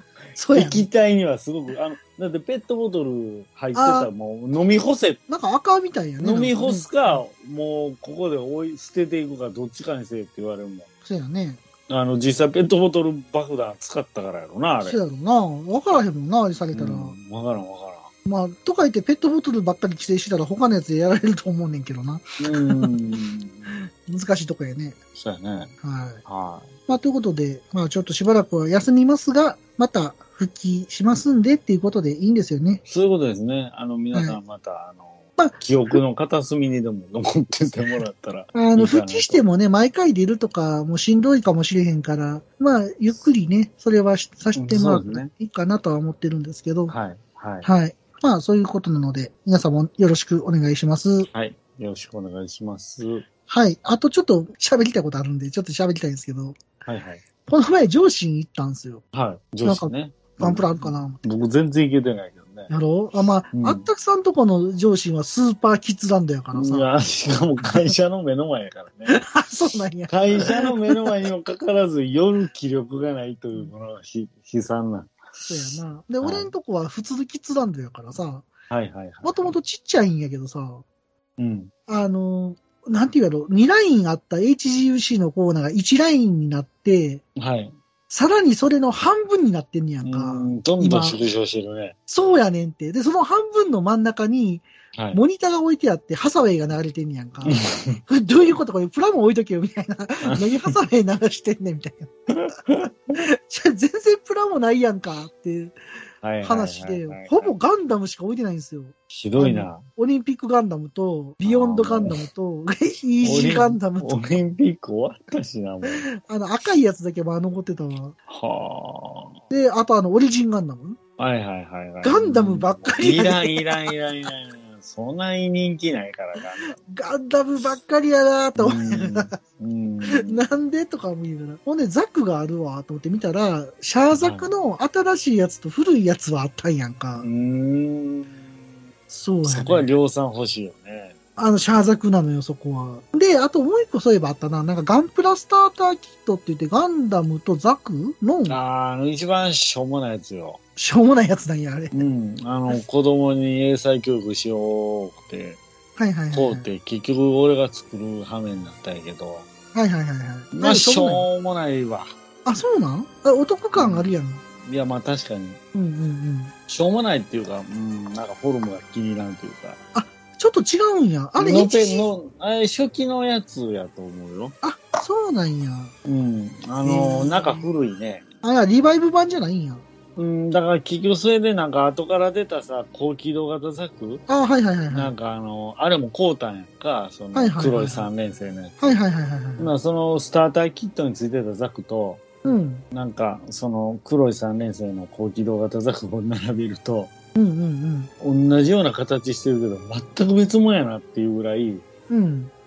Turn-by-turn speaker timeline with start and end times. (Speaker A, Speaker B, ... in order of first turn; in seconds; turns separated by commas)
Speaker A: 0.3-0.9, Speaker B: 0.5-5.2, Speaker A: 3.7-4.1, Speaker A: 5.3-7.2, Speaker B: 6.2-10.9, Speaker A: 11.0-11.6, Speaker B: 11.9-15.0, Speaker A: 14.8-17.1, Speaker B: 16.7-18.1, Speaker A: 18.2-23.1, Speaker B: 22.4-23.7, Speaker A: 23.7-25.0, Speaker B: 25.1-25.7, Speaker A: 25.8-26.2, Speaker B: 26.2-26.7, Speaker A: 26.9-32.8, Speaker B: 32.9-39.4, Speaker A: 34.1-34.4, Speaker A: 38.5-46.9, Speaker B: 44.5-45.3, Speaker B: 46.9-47.7, Speaker A: 47.6-51.3, Speaker B: 51.3-53.2, Speaker A: 53.5-56.6, Speaker B: 56.9-57.2, Speaker A: 57.5-59.0, Speaker B: 59.1-62.7, Speaker A: 59.6-61.2, Speaker A: 62.7-66.9, Speaker B: 63.5-63.9, Speaker B: 66.5-69.2, Speaker A: 69.1-71.1, Speaker B: 70.1-76.5, Speaker A: 75.5-78.5, Speaker B: 78.7-79.5, Speaker A: 79.2-80.8, Speaker B: 81.4-81.7, Speaker A: 81.9-87.2, Speaker B: 87.3-87.7, Speaker A: 88.1-91.2, Speaker B: 90.0-91.9, Speaker A: 92.1-102.1, Speaker B: 94.9-95.2, Speaker B: 97.4-98.0, Speaker B: 100.2-100.7, Speaker B: 102.3-103.1, Speaker A: 103.1-105.8, Speaker B: 106.2-107.5, Speaker A: 106.4-114.2, Speaker B: 109.1-109.8, Speaker B: 111.4-112.2, Speaker B: 113.2-116.0, Speaker A: 115.8-118.2, Speaker B: 118.3-119.4, Speaker A: 119.5-121.0, Speaker B: 121.2-126.8, Speaker A: 122.0-123.9, Speaker A: 126.6-129.4, Speaker B: 128.6-130.4, Speaker A: 130.1-137.3, Speaker B: 134.1-134.5, Speaker B: 137.2-138.5, Speaker A: 139.1-139.9, Speaker B: 139.4-141.1, Speaker A: 141.4-148.6, Speaker B: 148.5-150.6, Speaker A: 150.8-152.0, Speaker B: 151.9-155.6, Speaker A: 156.0-156.7, Speaker B: 156.3-159.5, Speaker A: 159.7-161.3, Speaker B: 160.5-162.1, Speaker A: 162.4-164.4, Speaker B: 163.7-164.1, Speaker B: 164.6-165.6, Speaker A: 165.7-166.5, Speaker B: 166.7-169.8, Speaker A: 169.9-172.1, Speaker B: 171.4-174.5, Speaker A: 174.6-175.9, Speaker B: 176.0-178.2, Speaker A: 176.8-177.7, Speaker A: 178.4-179.8, Speaker B: 180.2-184.2, Speaker A: 184.3-185.1, Speaker B: 184.9-189.0, Speaker A: 187.3-188.1, Speaker A: 188.8-189.7, Speaker B: 189.6-192.2, Speaker A: 192.4-192.8, Speaker B: 192.9-197.1, Speaker A: 197.3-198.1, Speaker B: 198.2-201.8, Speaker A: 202.1-202.5